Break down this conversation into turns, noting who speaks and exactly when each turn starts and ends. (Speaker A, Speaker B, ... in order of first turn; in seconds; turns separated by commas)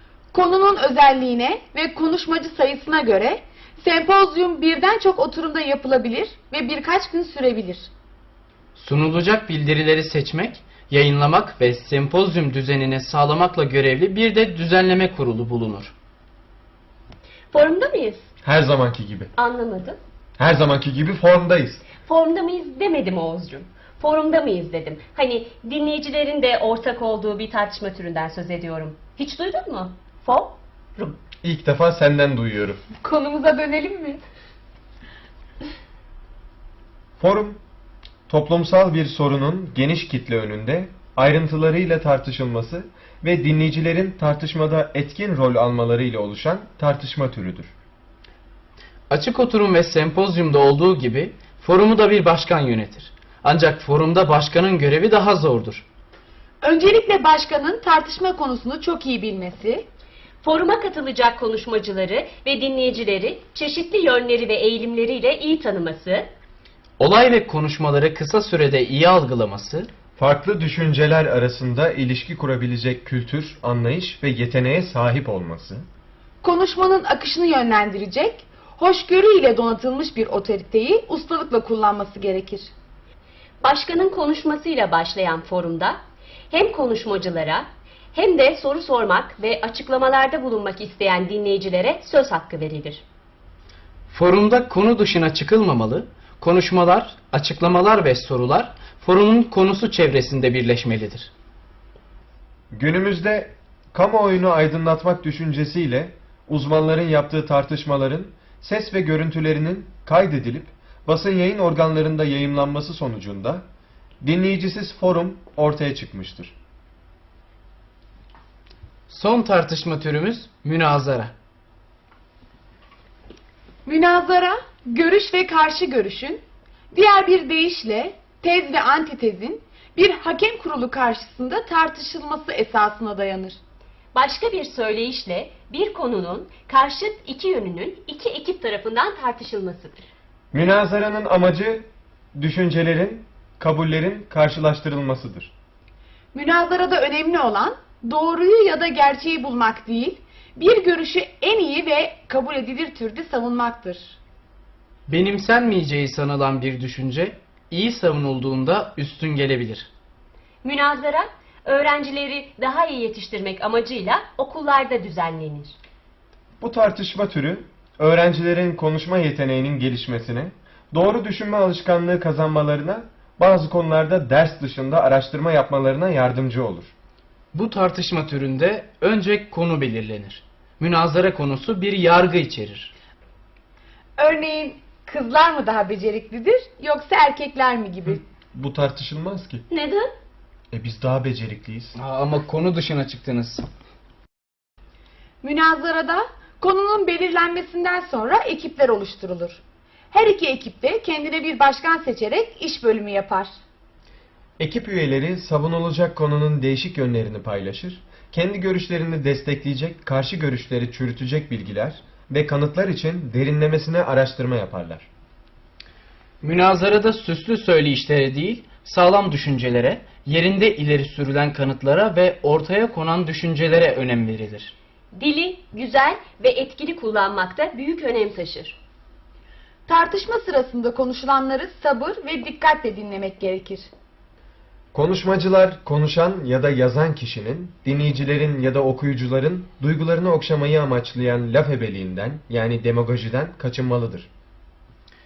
Speaker A: 0.3-7.9, Speaker B: 8.8-15.9, Speaker C: 17.5-18.3, Speaker D: 18.4-19.3, Speaker C: 19.4-20.0, Speaker D: 20.4-21.8, Speaker C: 22.0-31.2, Speaker D: 31.4-32.8, Speaker A: 33.0-34.2, Speaker D: 37.2-37.6, Speaker D: 38.3-47.7, Speaker B: 49.1-55.8, Speaker A: 56.6-59.9, Speaker C: 60.4-66.3, Speaker B: 67.0-69.9, Speaker D: 70.2-75.9, Speaker A: 76.4-82.7, Speaker C: 83.6-93.0, Speaker B: 94.1-101.3, Speaker D: 102.7-113.7, Speaker D: 114.2-116.5, Speaker B: 119.1-121.3, Speaker A: 123.9-133.6, Speaker C: 134.1-140.1, Speaker D: 140.5-145.5, Speaker A: 146.3-154.2, Speaker B: 155.1-159.9, Speaker C: 160.6-165.8, Speaker D: 166.6-176.9, Speaker B: 177.5-182.9, Speaker A: 184.2-188.2, Speaker D: 188.5-189.7, Speaker C: 189.7-190.1, Speaker D: 190.7-192.0, Speaker B: 192.0-193.7, Speaker A: 195.4-199.6, Speaker A: 200.1-203.5, Speaker D: 204.6-215.1, Speaker B: 216.4-224.8, Speaker C: 225.1-228.8, Speaker A: 229.9-233.9, Speaker D: 234.9-244.3